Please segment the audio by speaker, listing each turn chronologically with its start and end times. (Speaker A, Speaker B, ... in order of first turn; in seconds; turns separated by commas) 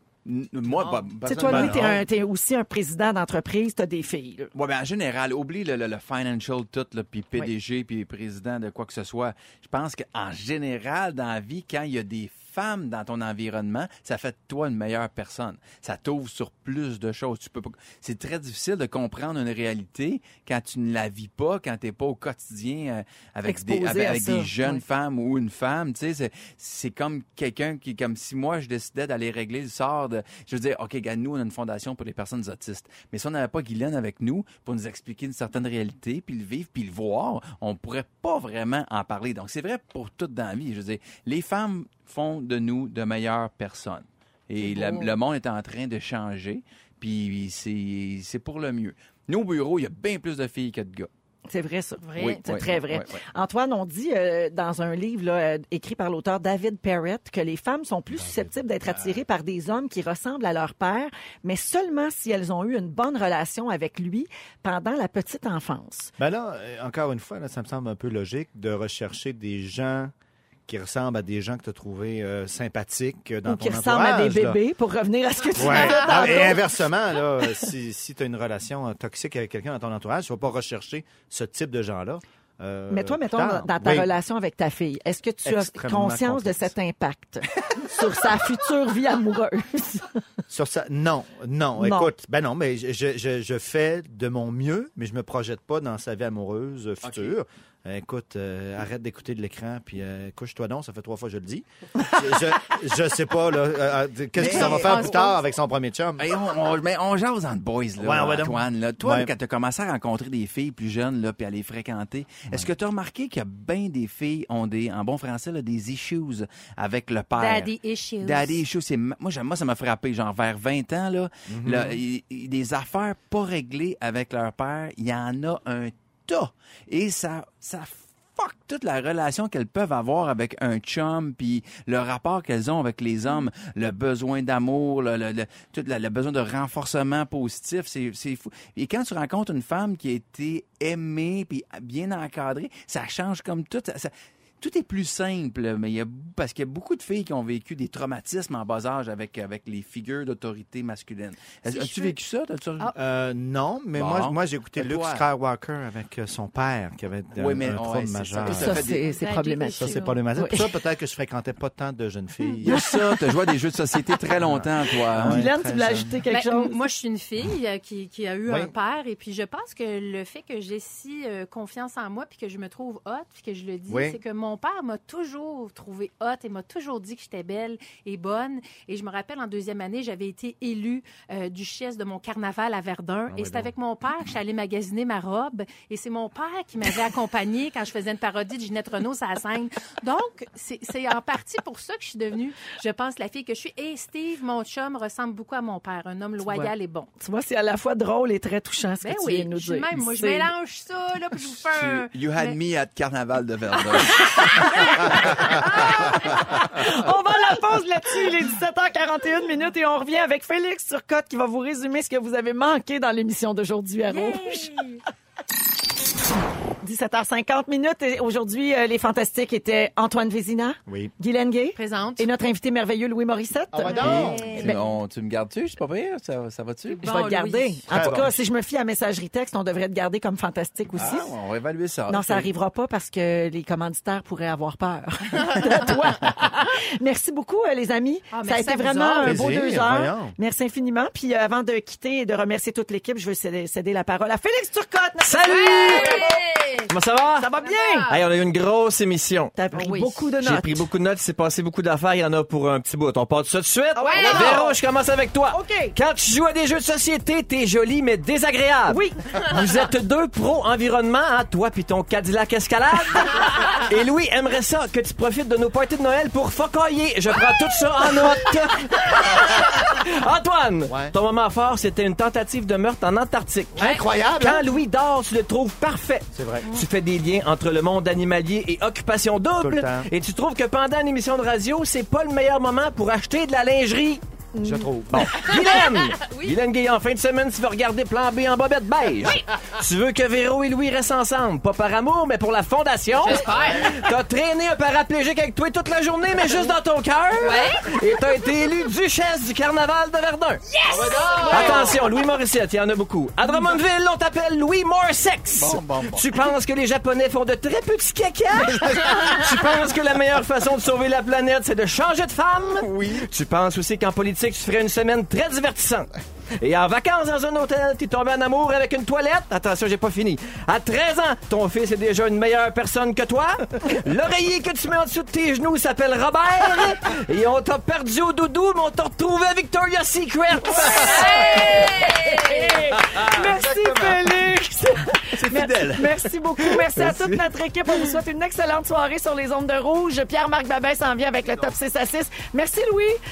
Speaker A: 0.2-2.0, Speaker B: 0.8-1.0, Speaker C: 1.2-4.5, Speaker D: 1.4-1.9, Speaker A: 4.5-51.1, Speaker C: 23.4-24.8, Speaker B: 44.6-45.1, Speaker C: 51.5-66.1, Speaker B: 52.0-52.4, Speaker A: 52.1-53.2, Speaker D: 58.1-58.5, Speaker A: 58.8-59.2, Speaker D: 66.2-70.1, Speaker D: 70.7-74.6, Speaker C: 73.4-76.6, Speaker D: 75.5-84.1, Speaker C: 82.9-90.2, Speaker D: 85.4-86.7, Speaker D: 90.5-106.3, Speaker C: 91.8-92.1, Speaker A: 97.0-97.3, Speaker A: 104.4-105.2, Speaker B: 104.4-105.4, Speaker A: 106.2-117.7, Speaker D: 108.0-109.3, Speaker B: 117.4-118.6, Speaker A: 118.2-152.9, Speaker D: 121.5-122.0, Speaker B: 151.7-152.2, Speaker D: 152.9-158.8, Speaker A: 154.0-155.2, Speaker A: 157.3-159.1, Speaker C: 158.4-160.6, Speaker B: 158.7-160.2, Speaker D: 159.8-162.9, Speaker A: 162.6-165.4, Speaker C: 162.8-163.1, Speaker D: 164.4-166.1, Speaker C: 165.2-166.8, Speaker B: 166.3-197.1, Speaker D: 168.4-168.7, Speaker D: 173.9-174.2, Speaker D: 183.3-183.7, Speaker C: 196.4-200.5, Speaker B: 199.0-202.6, Speaker A: 201.4-207.0, Speaker B: 204.0-206.2, Speaker C: 204.8-214.8, Speaker B: 214.1-215.0, Speaker C: 216.8-224.8, Speaker D: 220.9-221.1, Speaker B: 221.8-222.3, Speaker D: 223.7-224.6, Speaker B: 223.9-224.9, Speaker A: 224.0-227.1, Speaker B: 226.9-227.8, Speaker C: 227.0-231.3, Speaker D: 227.9-228.3, Speaker A: 228.0-228.3, Speaker A: 230.9-232.5, Speaker C: 232.1-246.4, Speaker B: 238.3-239.3, Speaker D: 239.2-240.4, Speaker E: 245.2-246.2, Speaker B: 245.5-246.8, Speaker E: 246.9-247.5, Speaker C: 247.3-248.1, Speaker B: 247.6-248.2, Speaker E: 248.1-284.2, Speaker C: 249.5-250.8, Speaker C: 253.9-254.8, Speaker B: 254.1-254.6, Speaker C: 255.5-255.9, Speaker C: 258.9-259.3, Speaker D: 270.9-271.1, Speaker D: 273.8-274.7, Speaker D: 276.3-276.7, Speaker D: 279.6-280.1, Speaker C: 284.5-284.9, Speaker D: 284.6-285.3, Speaker E: 285.1-316.1, Speaker B: 285.4-286.5, Speaker B: 293.2-294.0, Speaker B: 297.4-297.9, Speaker B: 300.8-302.1, Speaker C: 301.3-301.8, Speaker A: 305.5-306.3, Speaker A: 312.9-313.2, Speaker E: 316.6-331.4, Speaker C: 330.8-343.2, Speaker B: 330.9-332.4, Speaker D: 333.4-334.3, Speaker A: 335.3-338.1